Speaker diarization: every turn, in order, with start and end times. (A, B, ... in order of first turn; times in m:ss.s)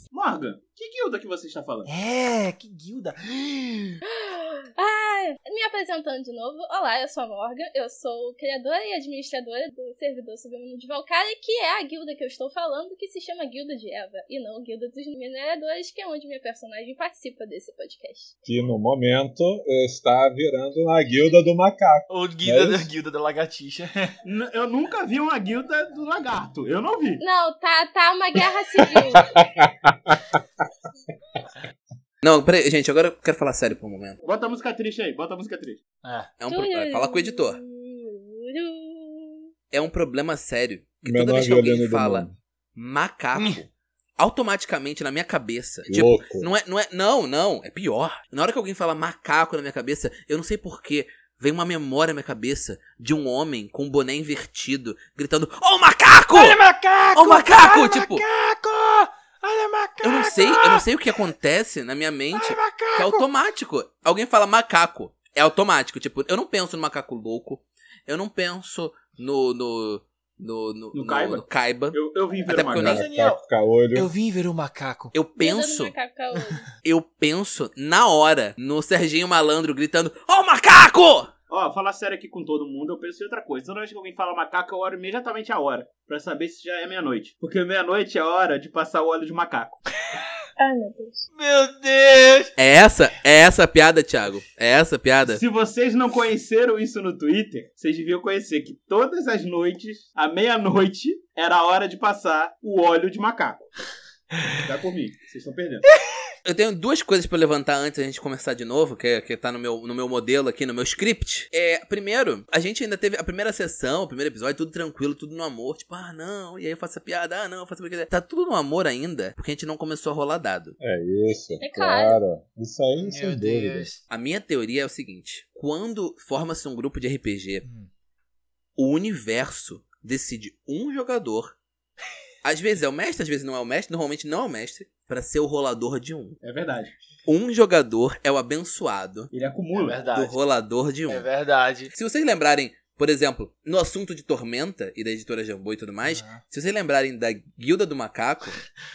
0:00.1-0:01.9 A
0:01.9-0:04.0 B
0:04.0-0:18.3 C
0:18.4-0:22.9 D
0:22.1-0:24.1 B
0:24.2-0:27.2 A
0:27.2-0:29.3 C
0:29.1-0:30.4 D
0:32.2-0:34.2 E
0:34.2-0:35.8 A
0:36.0-0:36.3 B
0:36.4-0:37.6 E
0:36.5-0:39.4 C
0:39.7-0:56.6 E
0:41.0-0:42.3 D
0:43.3-0:43.6 B
0:45.9-0:46.5 D
0:56.3-1:01.2 B
0:57.1-0:58.2 E
1:00.0-1:13.0 E
1:02.3-1:03.2 B
1:10.9-1:13.0 A
1:12.7-1:13.4 B
1:12.8-1:14.1 D
1:13.9-1:15.1 B
1:15.1-1:15.9 E
1:15.4-1:16.6 C
1:16.8-1:21.3 E
1:21.5-1:29.8 A
1:30.6-1:31.3 C
1:31.3-1:32.5 B
1:32.6-1:35.4 E
1:35.2-1:43.6 A
1:44.6-1:45.8 A
1:46.4-2:00.8 E
2:00.8-2:03.9 D
2:01.6-2:02.2 C
2:03.0-2:04.0 B
2:04.1-2:07.6 E
2:08.8-2:11.5 E
2:12.4-2:16.4 E
2:16.4-2:16.9 A
2:17.2-2:19.3 E
2:19.3-2:20.1 A
2:19.7-2:20.4 B
2:20.1-2:21.3 E
2:21.1-2:21.9 B
2:21.9-2:28.6 E
2:26.0-2:26.4 B